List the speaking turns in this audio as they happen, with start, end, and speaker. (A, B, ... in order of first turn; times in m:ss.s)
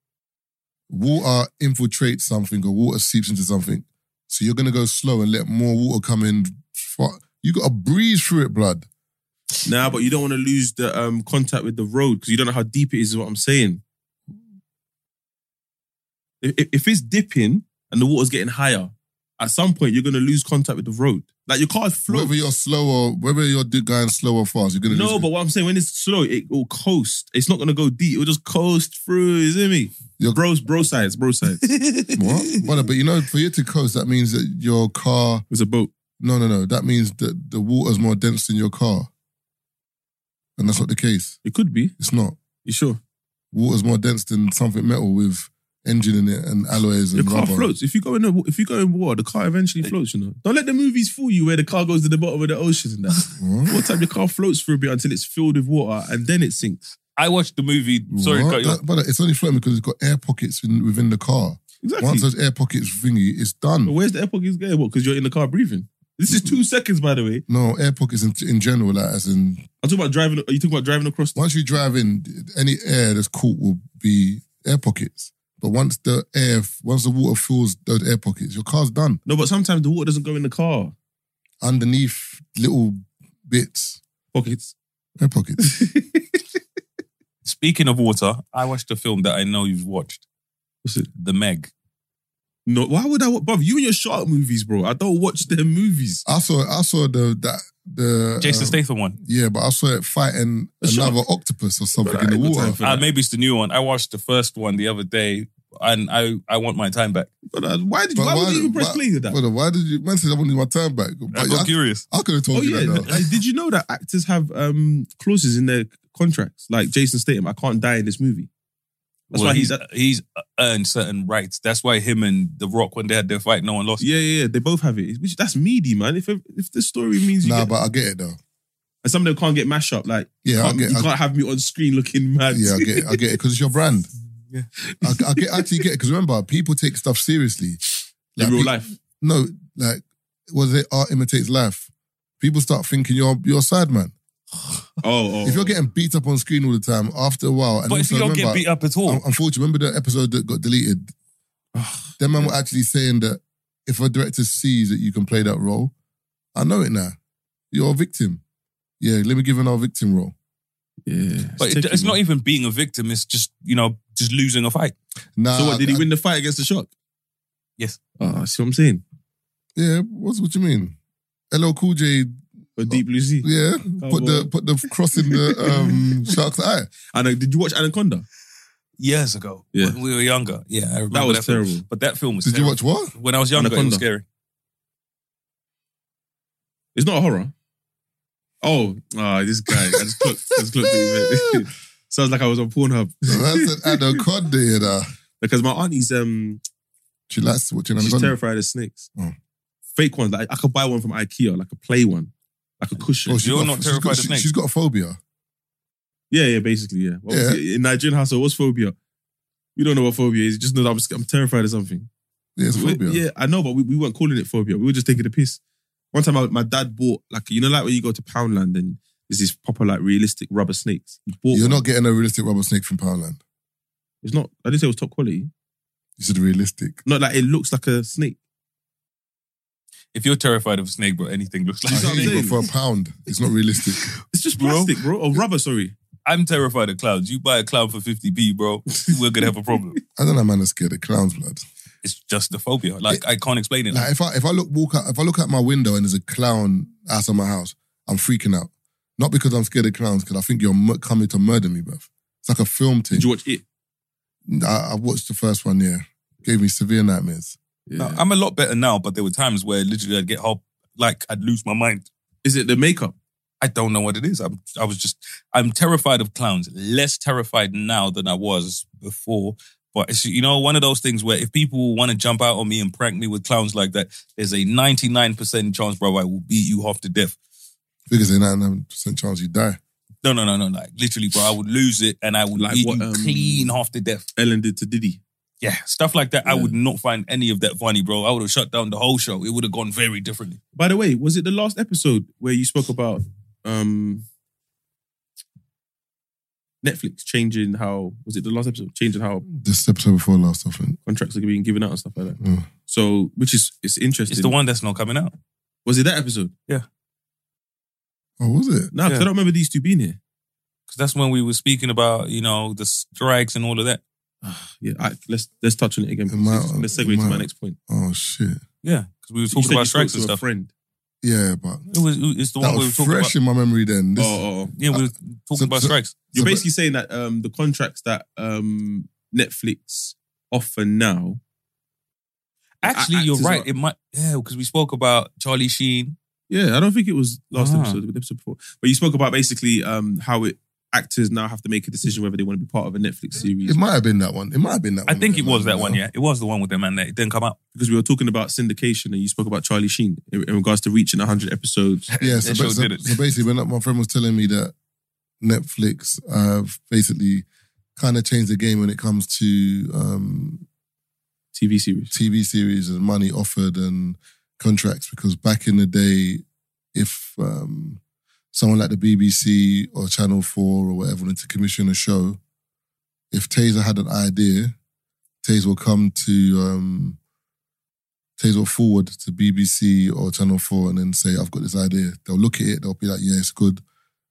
0:00.9-0:08.9 A
0:09.6-0:13.8 B
0:16.4-0:22.3 B
0:22.1-0:25.3 A
0:24.9-0:31.7 B
0:31.6-0:32.2 C
0:32.1-0:35.4 A
0:35.5-0:35.9 B
0:36.2-0:39.1 A
0:40.6-0:41.4 A
0:41.4-0:41.9 B
0:42.0-0:42.4 A
0:42.6-0:43.0 B
0:43.5-0:47.7 A
0:47.1-0:56.8 B
0:53.4-0:53.8 A
0:57.2-0:58.8 C
0:58.1-1:03.9 A
1:01.8-1:02.3 B
1:03.9-1:07.4 B
1:07.5-1:09.6 A
1:09.8-1:11.4 B
1:11.4-1:19.2 A
1:19.2-1:20.9 B
1:21.6-1:24.0 A
1:24.3-1:24.8 B
1:25.2-1:25.7 A
1:25.6-1:26.2 B
1:27.4-1:30.2 C
1:31.2-1:31.7 C
1:32.6-1:36.2 B
1:36.2-1:42.8 A
1:38.4-1:39.2 C
1:40.8-1:41.2 B
1:42.0-1:43.1 B
1:42.8-1:47.3 C
1:47.5-1:49.4 B
1:48.2-1:53.1 A
1:51.3-1:52.0 C
1:52.5-1:58.5 B
1:59.3-1:59.8 B
1:59.3-2:04.0 C
2:04.0-2:07.7 B
2:07.4-2:08.4 A
2:09.0-2:13.2 B
2:10.4-2:11.1 A
2:12.5-2:14.1 A
2:14.8-2:15.8 B
2:15.0-2:17.8 A
2:18.4-2:21.9 A
2:18.4-2:19.0 B
2:22.4-2:24.1 A
2:25.0-2:25.8 B
2:25.4-2:31.1 A
2:27.9-2:29.2 C
2:31.8-2:32.5 B
2:32.2-2:35.9 A
2:36.5-2:37.2 A
2:37.7-2:38.4 A
2:39.0-2:40.4 A
2:41.1-2:42.2 B
2:41.6-2:44.9 C
2:45.4-2:46.0 A
2:45.5-2:46.9 B
2:48.2-2:49.0 B
2:49.8-2:51.0 A
2:51.5-2:56.9 A
2:52.8-2:53.5 B
2:54.0-2:54.5 B
2:55.3-2:56.1 B
2:57.1-2:58.2 B
2:59.0-3:04.2 C
3:01.1-3:01.8 B
3:02.4-3:03.1 A
3:03.5-3:04.0 B
3:06.9-3:07.5 B
3:08.6-3:14.2 B
3:09.7-3:11.6 A
3:13.3-3:15.1 A
3:15.4-3:16.6 B
3:17.3-3:18.4 A
3:18.0-3:19.1 B
3:20.0-3:23.4 B
3:23.2-3:25.2 A
3:23.4-3:24.5 C
3:26.3-3:28.9 B
3:27.3-3:27.6 A
3:29.8-3:32.1 B
3:32.6-3:33.2 A
3:32.7-3:35.6 B
3:36.1-3:41.8 B
3:41.5-3:43.4 A
3:44.2-3:45.5 B
3:46.2-3:47.0 A
3:47.0-3:48.4 B
3:50.1-3:52.5 C
3:51.9-3:52.6 B
3:51.9-3:54.0 A
3:54.3-3:55.9 B
3:54.6-3:55.0 C
3:56.2-4:00.0 C
4:00.2-4:01.6 A
4:02.0-4:04.1 C
4:03.9-4:13.3 A
4:13.1-4:13.6 B
4:14.5-4:17.6 A
4:17.9-4:18.2 B
4:18.0-4:22.1 C
4:22.4-4:23.1 B
4:23.6-4:37.4 C
4:38.1-4:39.8 A
4:40.2-4:44.3 C
4:42.6-4:43.7 B
4:44.4-4:45.2 B
4:45.6-4:50.6 C
4:46.4-4:46.8 B
4:50.8-4:54.2 B
4:56.8-4:59.4 B
4:59.5-5:01.0 A
5:01.0-5:04.5 B
5:02.4-5:02.7 A
5:04.3-5:05.3 C
5:05.9-5:06.5 B
5:08.4-5:08.9 A
5:08.9-5:10.2 B
5:10.9-5:14.0 C
5:14.4-5:17.8 B
5:16.3-5:18.6 A
5:18.8-5:20.4 C
5:19.5-5:20.7 B
5:21.2-5:21.9 A
5:21.9-5:23.3 C
5:22.6-5:26.6 A
5:24.2-5:24.8 B
5:24.8-5:26.1 C
5:26.3-5:31.4 B
5:32.8-5:36.2 C
5:32.8-5:33.7 B
5:36.5-5:43.8 B
5:37.5-5:38.0 C
5:43.6-5:46.0 A
5:45.1-5:47.6 C
5:47.8-5:52.1 B
5:52.1-5:53.2 C
5:52.2-5:54.7 A
5:55.4-6:00.6 A
6:01.5-6:02.1 B
6:02.1-6:08.0 A
6:08.5-6:12.4 A
6:13.3-6:14.8 A
6:15.4-6:17.2 A
6:18.4-6:23.8 A